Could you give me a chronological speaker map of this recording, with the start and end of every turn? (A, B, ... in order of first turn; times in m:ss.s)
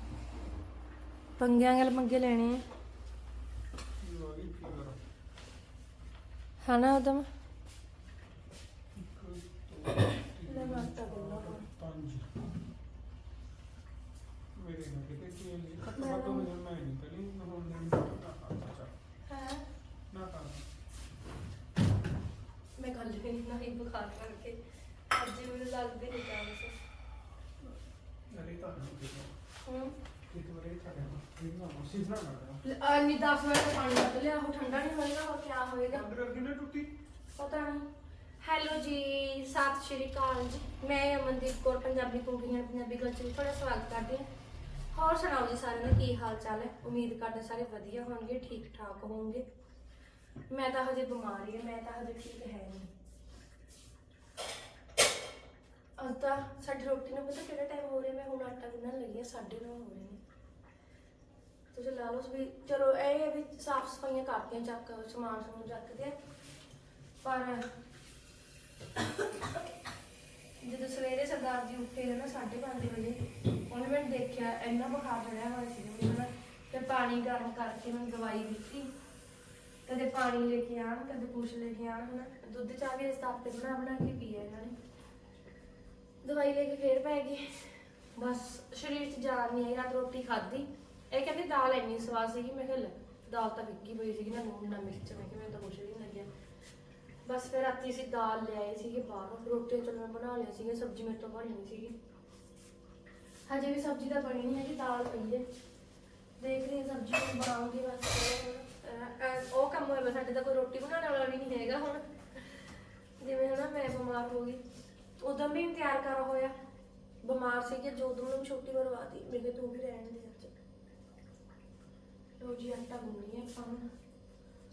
0:01.4-0:02.6 A
0:04.0-0:05.0 B
0:06.6-0:07.3 A
0:08.9-0:12.3 B
0:10.4-0:11.6 A
0:14.6-0:18.9 B
0:16.0-0:16.5 A
0:19.3-0:19.6 A
0:20.1-0:20.6 B
0:22.8-0:24.6 A
0:25.1-0:26.7 A
0:28.3-0:29.3 B
0:29.6-0:29.9 A
0:30.3-0:32.6 B
0:32.6-0:36.1 A
0:35.9-0:36.9 B
0:37.4-0:37.9 A
0:38.4-0:44.3 A
0:44.9-0:49.4 A
0:50.5-0:52.9 A
0:56.0-1:00.2 A
1:01.7-1:06.2 A
1:07.2-1:07.6 A
1:09.0-1:09.4 A
1:10.6-1:18.9 A
1:19.8-1:24.8 A
1:26.2-1:36.3 A
1:37.2-1:42.0 A
1:43.5-1:45.4 A
1:46.4-1:52.6 A
1:53.2-1:54.6 A
1:55.2-1:56.5 A
1:57.2-2:00.5 A
2:02.4-2:03.8 A